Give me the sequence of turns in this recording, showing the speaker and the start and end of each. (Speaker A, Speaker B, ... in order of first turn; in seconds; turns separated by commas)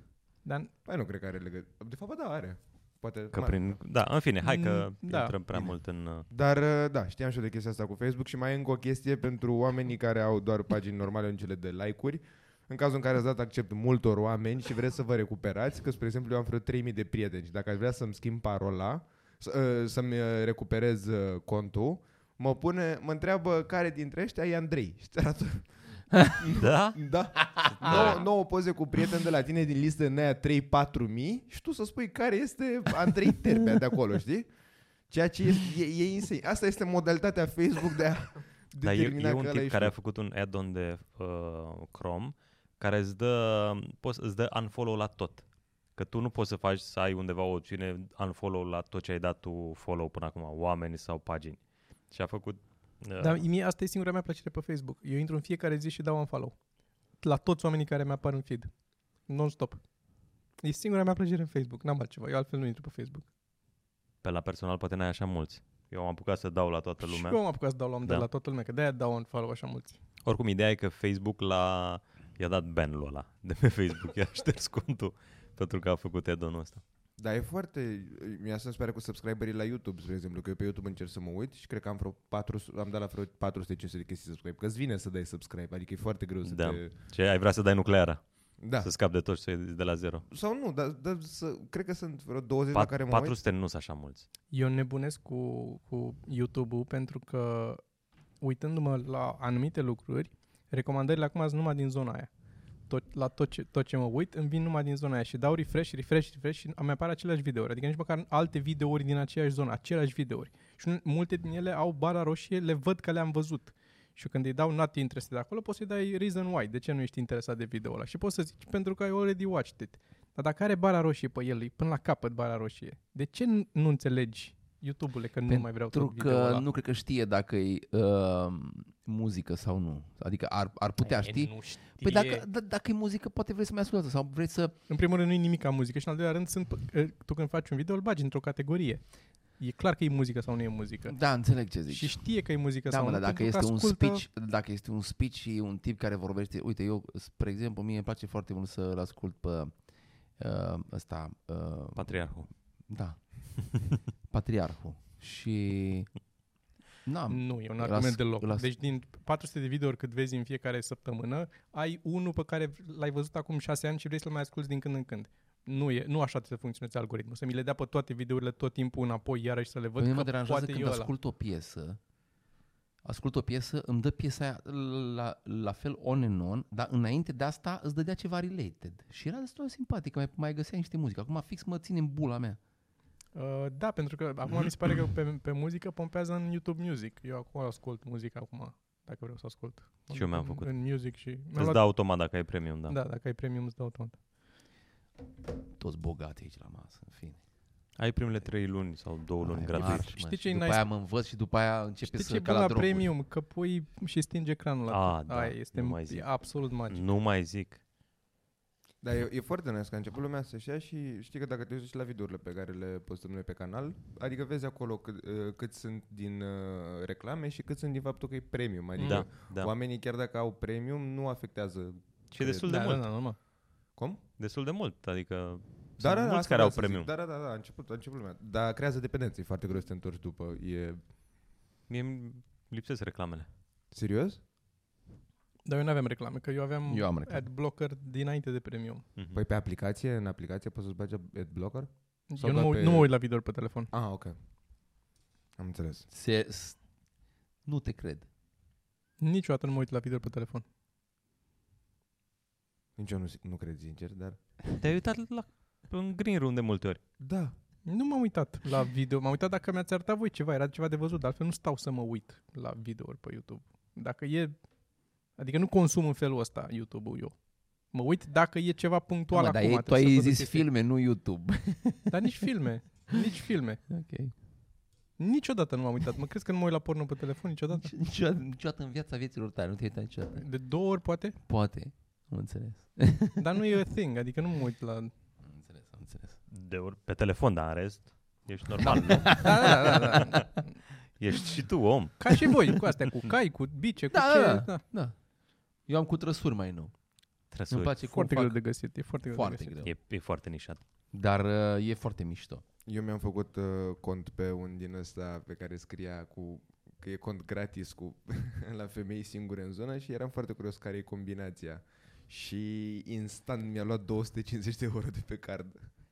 Speaker A: 0.4-0.7, Speaker B: 0.8-3.6, Speaker C: 3.3-6.3, Speaker A: 4.4-5.3, Speaker B: 6.3-25.7, Speaker B: 26.2-34.5, Speaker C: 26.6-27.0, Speaker C: 27.6-28.2, Speaker D: 27.8-28.1, Speaker B: 35.1-39.9, Speaker C: 38.8-53.4, Speaker A: 53.2-56.6, Speaker A: 57.2-58.7, Speaker A: 59.3-59.8, Speaker A: 60.6-63.2, Speaker C: 64.2-67.4, Speaker A: 67.0-70.0, Speaker C: 70.2-76.8, Speaker B: 77.2-86.9, Speaker C: 86.4-88.2, Speaker B: 88.6-88.9, Speaker C: 88.8-90.2, Speaker B: 90.3-93.4, Speaker C: 92.7-94.2, Speaker A: 94.5-97.8, Speaker A: 98.4-102.3, Speaker A: 102.9-126.6, Speaker D: 125.5-134.7, Speaker A: 131.0-132.4, Speaker A: 134.9-139.1, Speaker A: 139.6-144.2, Speaker D: 141.1-142.3, Speaker D: 142.8-149.7, Speaker D: 150.4-152.3, Speaker C: 151.9-152.5, Speaker D: 152.9-153.2, Speaker D: 154.2-156.1, Speaker D: 157.0-158.7, Speaker A: 157.3-171.1, Speaker D: 170.0-172.0, Speaker D: 173.0-182.6, Speaker A: 183.3-191.8, Speaker C: 190.1-190.7, Speaker C: 191.5-193.0, Speaker A: 192.9-194.2, Speaker D: 195.7-197.4, Speaker C: 198.0-200.2, Speaker D: 199.4-203.1, Speaker A: 199.8-200.8, Speaker A: 202.0-207.0, Speaker C: 204.9-207.8, Speaker B: 209.0-222.9, Speaker C: 219.0-219.7, Speaker C: 222.3-223.1, Speaker A: 222.7-223.4, Speaker C: 224.4-227.1, Speaker B: 226.0-231.0, Speaker C: 231.9-233.5, Speaker B: 233.9-234.4, Speaker A: 235.6-239.0, Speaker D: 236.9-237.5, Speaker B: 239.3-243.1, Speaker A: 242.3-243.9, Speaker B: 243.9-244.3, Speaker B: 245.6-246.1, Speaker D: 246.1-246.8, Speaker D: 247.7-248.3, Speaker A: 249.2-250.6, Speaker B: 253.0-254.4, Speaker C: 254.8-257.0, Speaker B: 257.2-257.5, Speaker A: 257.9-264.5, Speaker A: 265.4-267.4, Speaker A: 267.9-270.6, Speaker D: 269.3-272.4, Speaker A: 272.1-273.8, Speaker D: 273.9-274.3, Speaker A: 275.2-277.9, Speaker D: 277.7-280.4, Speaker A: 280.4-281.4, Speaker D: 281.4-283.4, Speaker A: 283.4-285.1, Speaker D: 285.4-286.4, Speaker C: 286.5-290.4, Speaker D: 288.8-290.4, Speaker A: 289.3-290.7, Speaker C: 291.2-292.5, Speaker A: 292.2-294.8, Speaker D: 294.1-295.1, Speaker D: 295.9-296.9, Speaker C: 297.5-297.9, Speaker D: 297.7-298.6, Speaker A: 298.0-299.7, Speaker D: 299.3-299.9, Speaker C: 299.8-300.8, Speaker D: 301.1-302.6, Speaker B: 302.9-315.9